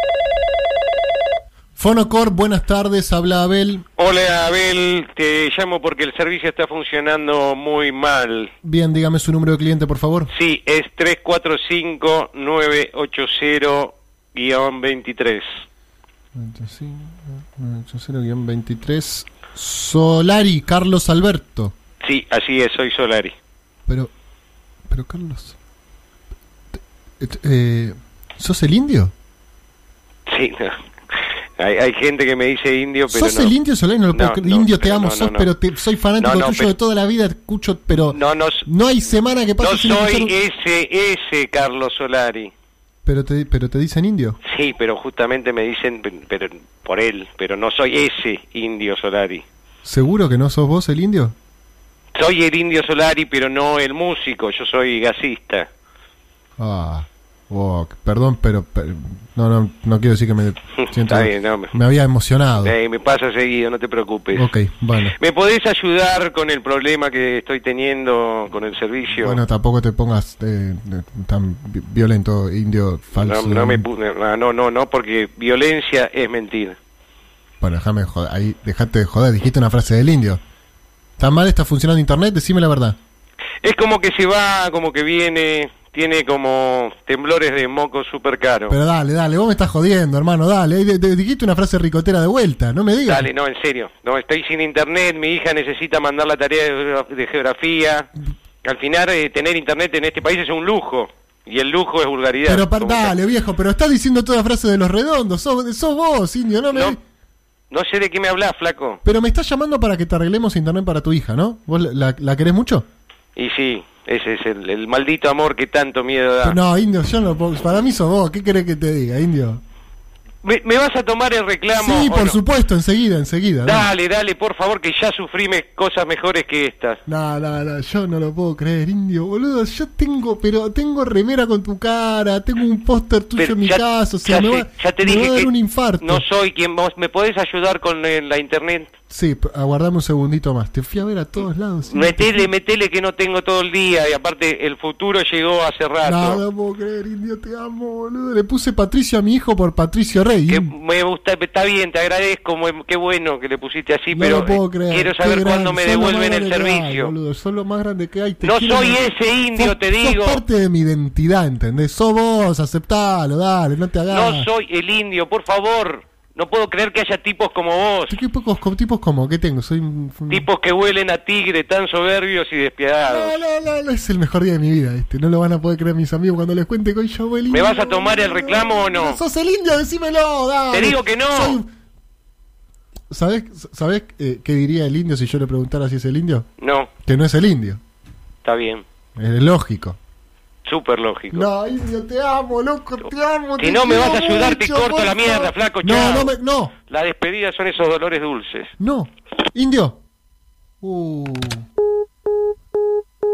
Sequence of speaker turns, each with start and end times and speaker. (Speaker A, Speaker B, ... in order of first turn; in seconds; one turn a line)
Speaker A: 1.8-3.8
Speaker B: 4.0-8.5
Speaker A: 8.6-10.3
Speaker B: 10.3-15.4
Speaker A: 16.3-21.7
Speaker B: 22.0-23.3
Speaker A: 24.9-25.6
Speaker A: 27.2-29.1
Speaker B: 30.3-30.8
Speaker B: 31.6-33.5
Speaker A: 33.1-40.3
Speaker B: 34.1-35.5
Speaker B: 36.2-36.7
Speaker B: 38.1-38.7
Speaker B: 39.6-42.5
Speaker A: 43.0-44.4
Speaker B: 44.4-49.4
Speaker A: 49.8-51.3
Speaker B: 52.1-55.7
Speaker A: 56.6-62.7
Speaker B: 60.9-61.7
Speaker B: 62.6-64.5
Speaker A: 64.3-65.1
Speaker B: 65.1-69.4
Speaker A: 69.2-73.8
Speaker B: 73.1-76.8
Speaker A: 77.6-80.4
Speaker A: 81.2-83.0
Speaker B: 83.6-88.8
Speaker A: 88.7-93.3
Speaker B: 93.1-98.1
Speaker B: 98.6-103.1
Speaker A: 102.4-107.0
Speaker B: 106.7-107.0
Speaker B: 107.7-109.0
Speaker A: 109.0-112.8
Speaker B: 113.3-116.6
Speaker A: 116.4-119.6
Speaker B: 120.4-122.4
Speaker A: 121.8-123.9
Speaker B: 123.6-127.0
Speaker A: 127.1-136.2
Speaker B: 133.4-138.9
Speaker A: 139.1-142.5
Speaker B: 141.9-146.4
Speaker A: 146.0-150.7
Speaker B: 150.5-157.1
Speaker A: 154.1-164.5
Speaker B: 158.4-160.4
Speaker B: 164.1-168.2
Speaker A: 168.1-170.4
Speaker B: 170.3-173.3
Speaker A: 173.0-181.7
Speaker B: 177.5-179.2
Speaker B: 180.7-181.6
Speaker A: 183.1-186.4
Speaker B: 186.6-186.9
Speaker A: 187.0-187.8
Speaker B: 188.4-188.8
Speaker A: 189.2-190.0
Speaker B: 190.6-191.5
Speaker A: 191.3-196.7
Speaker B: 193.6-196.3
Speaker B: 196.9-198.7
Speaker A: 198.8-200.0
Speaker A: 200.8-201.6